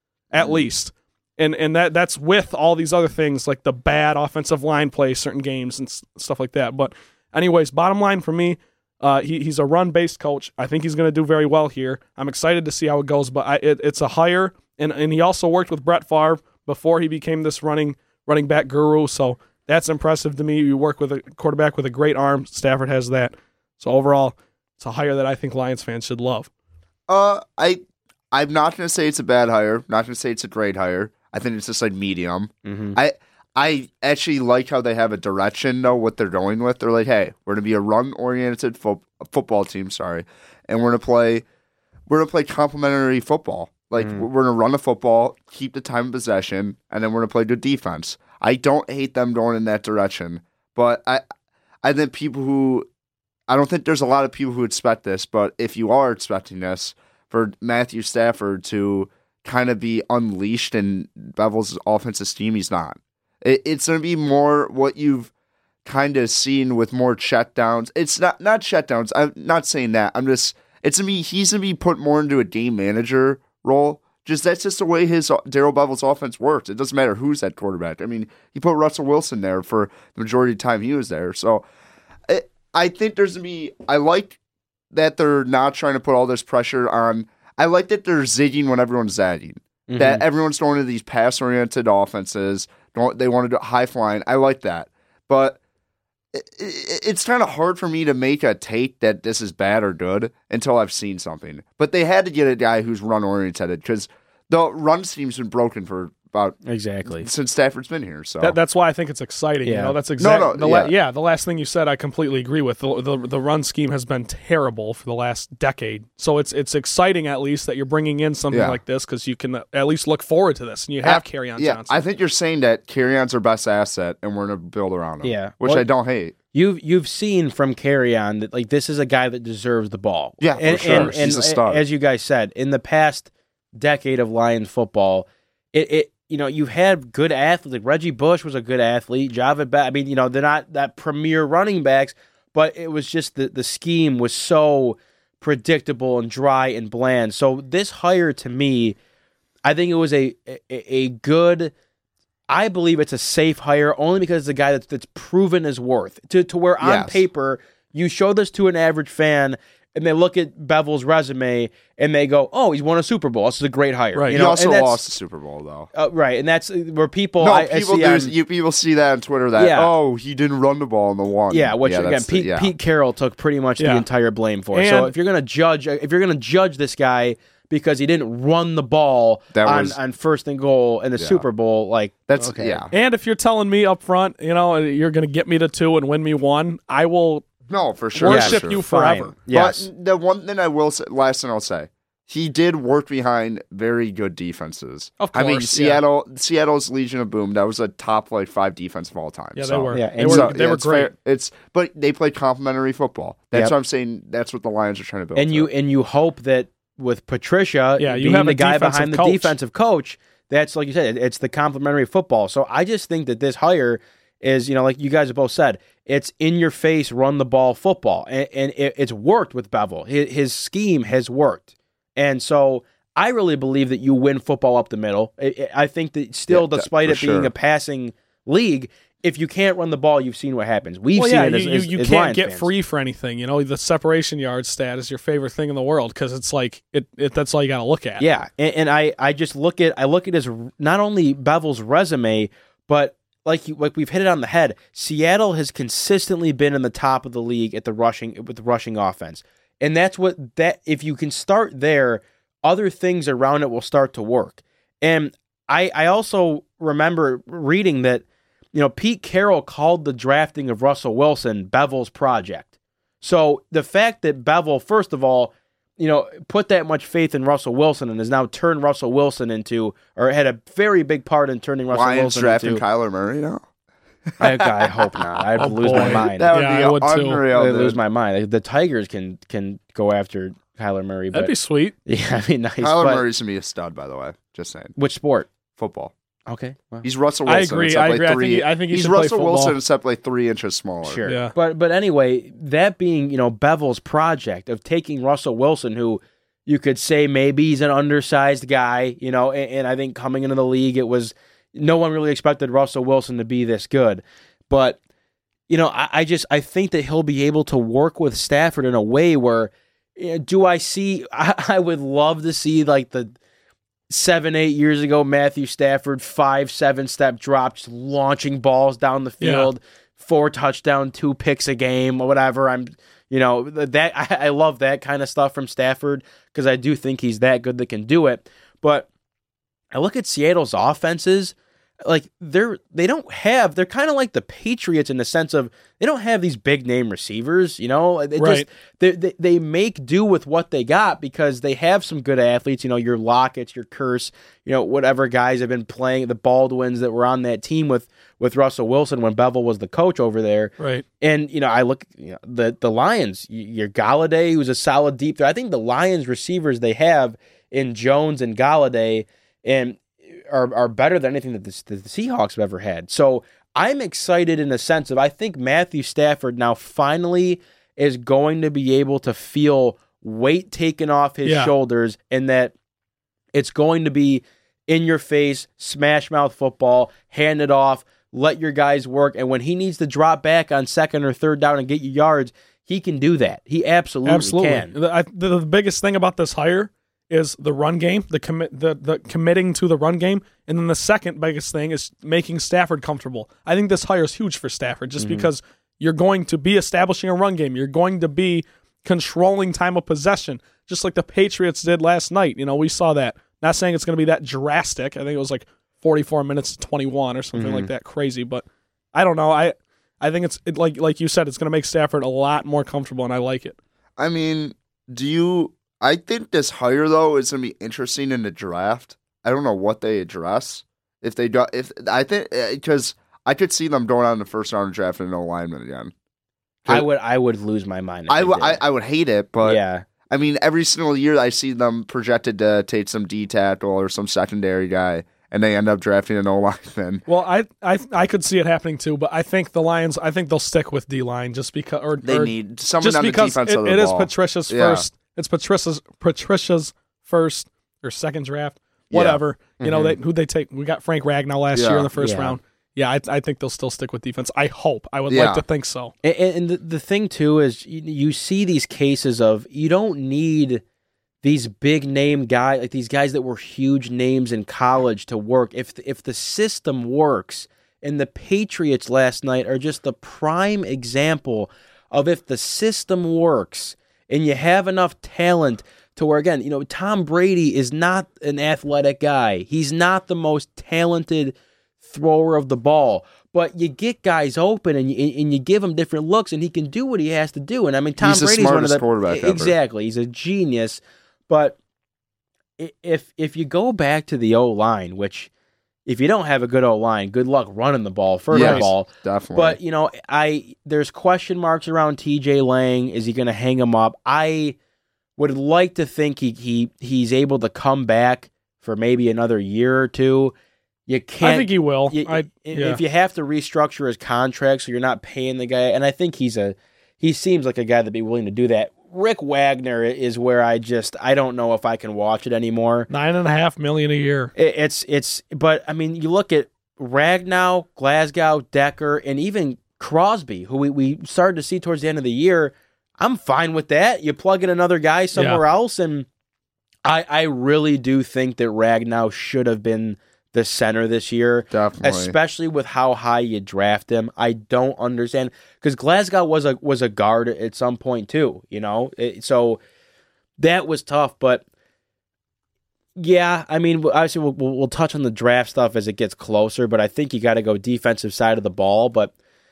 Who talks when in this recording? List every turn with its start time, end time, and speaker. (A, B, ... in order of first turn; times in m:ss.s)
0:00.3-0:26.5 A
0:27.1-0:41.4 B
0:32.6-0:33.0 C
0:42.1-0:51.2 B
0:44.0-0:44.2 C
0:51.8-0:52.9 B
0:53.5-1:05.3 B
1:05.8-1:21.6 B
1:22.3-1:24.4 B
1:24.9-1:35.6 B
1:29.9-1:30.2 C
1:36.3-1:48.6 B
1:46.6-1:47.3 C
1:48.4-2:02.0 A
1:49.6-1:50.0 C
1:50.2-1:50.9 B
1:58.5-1:58.8 B
2:01.0-2:06.3 B
2:05.2-2:05.9 C
2:06.5-2:29.0 C
2:10.4-2:11.8 B
2:10.8-2:11.1 A
2:29.6-2:31.7 C
2:32.5-2:45.0 C
2:36.8-2:37.2 B
2:44.1-2:44.4 A
2:44.3-2:45.9 B
2:45.9-2:48.3 C
2:47.4-2:52.7 B
2:49.5-2:49.9 C
2:51.5-3:02.8 C
2:53.8-2:54.0 A
2:54.7-2:55.1 A
2:59.5-3:00.0 B
3:01.2-3:01.4 B
3:02.3-3:02.9 B
3:02.9-3:07.4 A
3:07.7-3:08.8 B
3:08.2-3:09.3 A
3:08.2-3:09.8 C
3:09.5-3:25.7 B
3:15.2-3:16.0 A
3:19.6-3:21.1 A
3:19.9-3:20.5 C
3:25.4-3:41.6 C
3:28.0-3:29.5 A
3:42.2-3:52.7 C
3:46.5-3:47.5 B
3:51.1-3:58.2 A
3:58.2-4:22.7 C
4:23.2-4:32.8 C
4:31.9-4:33.6 B
4:34.4-4:35.4 B
4:34.4-4:36.6 C
4:35.6-4:37.4 A
4:35.9-4:38.0 B
4:37.5-4:41.5 C
4:41.3-4:41.9 A
4:42.0-4:43.2 C
4:42.8-4:44.9 B
4:45.0-4:45.5 C
4:45.8-4:46.1 B
4:46.5-4:47.1 C
4:47.0-4:51.2 B
4:47.4-4:49.8 A
4:51.0-5:05.0 C
4:51.2-4:51.5 A
5:05.7-5:13.3 C
5:14.1-5:29.1 C
5:19.4-5:19.7 A
5:29.9-6:12.7 C
5:38.4-5:38.6 A
5:50.8-5:51.0 A
6:11.4-6:11.7 A
6:13.5-6:24.9 C
6:24.2-6:53.8 A
6:35.2-6:35.5 C
6:47.5-6:47.9 C
6:54.2-7:06.1 B
7:06.9-7:08.8 C
7:08.3-7:17.2 B
7:09.6-7:10.0 C
7:17.3-7:36.1 A
7:22.2-7:25.0 B
7:29.1-7:29.4 B
7:29.8-7:30.2 C
7:31.7-7:32.1 B
7:32.2-7:32.6 C
7:35.3-7:35.6 B
7:36.2-7:40.8 C
7:41.4-8:11.8 C
8:08.2-8:09.7 B
8:12.8-8:15.5 C
8:16.0-8:24.8 C
8:18.5-8:19.8 B
8:18.5-8:18.8 A
8:25.4-8:30.5 C
8:31.1-8:43.1 C
8:31.4-8:33.0 A
8:43.1-8:44.5 A
8:44.6-8:56.3 C
8:55.4-8:55.6 A
8:57.0-9:09.8 C
9:01.7-9:02.4 B
9:10.6-9:11.6 C
9:13.2-9:19.3 C